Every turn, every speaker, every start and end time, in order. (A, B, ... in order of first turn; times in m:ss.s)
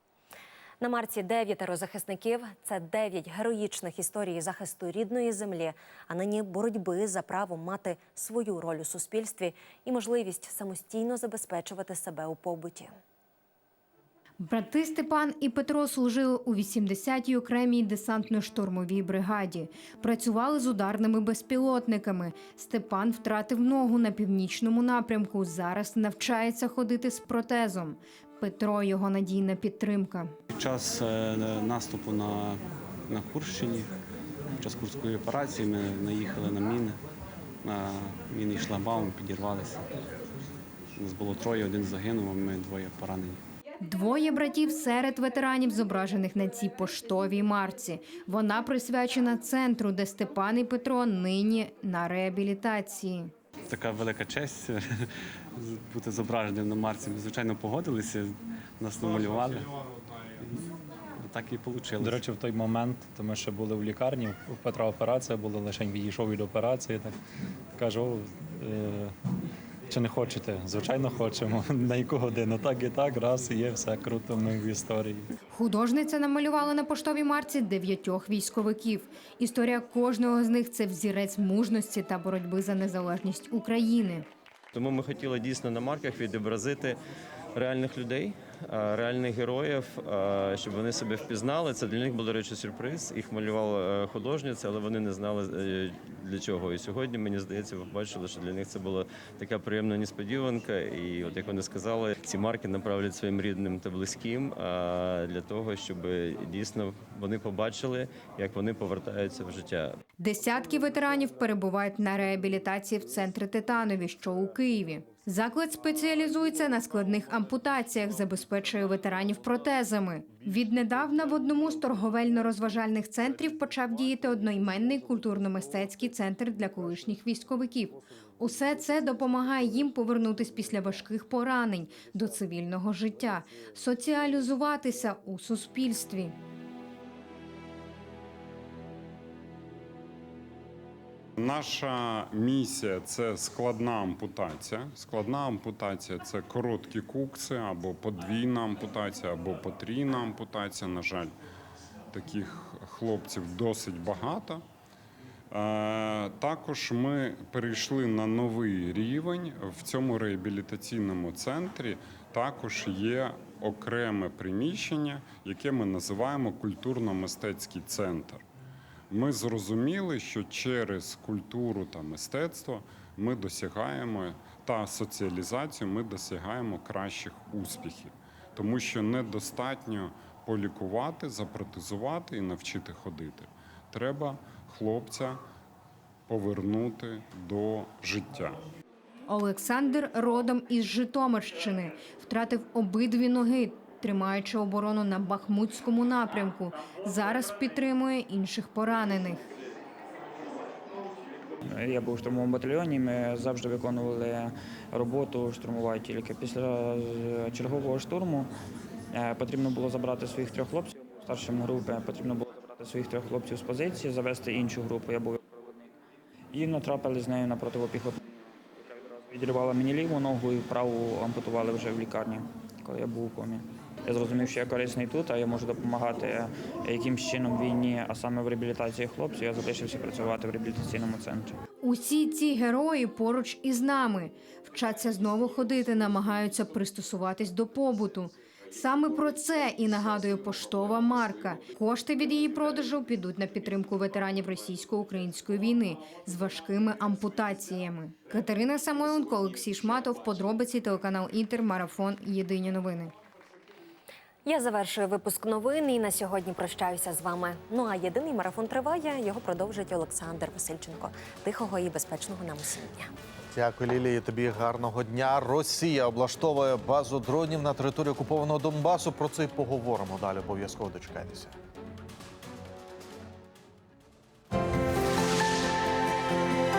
0:00.8-0:12.9 A
0:14.4-0:30.3 B
0:30.5-0:33.9 C
0:34.6-0:37.0 C
0:37.6-0:39.9 C
0:41.0-0:43.4 C
0:43.8-0:53.3 B
0:53.7-0:59.7 C
1:00.4-1:02.3 C
1:02.1-1:07.2 D
1:07.8-1:09.1 D
1:09.9-1:15.3 D
1:15.5-1:24.3 B
1:24.7-1:27.0 E
1:27.5-1:50.0 E
1:50.2-2:16.4 B
2:21.4-2:31.3 F
2:32.1-2:34.6 F
2:35.5-2:48.4 F
2:49.1-3:05.4 F
3:06.3-3:08.6 F
3:09.3-3:19.4 B
3:21.6-3:28.5 G
3:29.1-3:35.9 G
3:36.5-3:38.2 G
3:38.8-3:51.6 G
3:51.8-4:13.1 B
4:14.4-4:23.1 A
4:23.5-4:31.5 H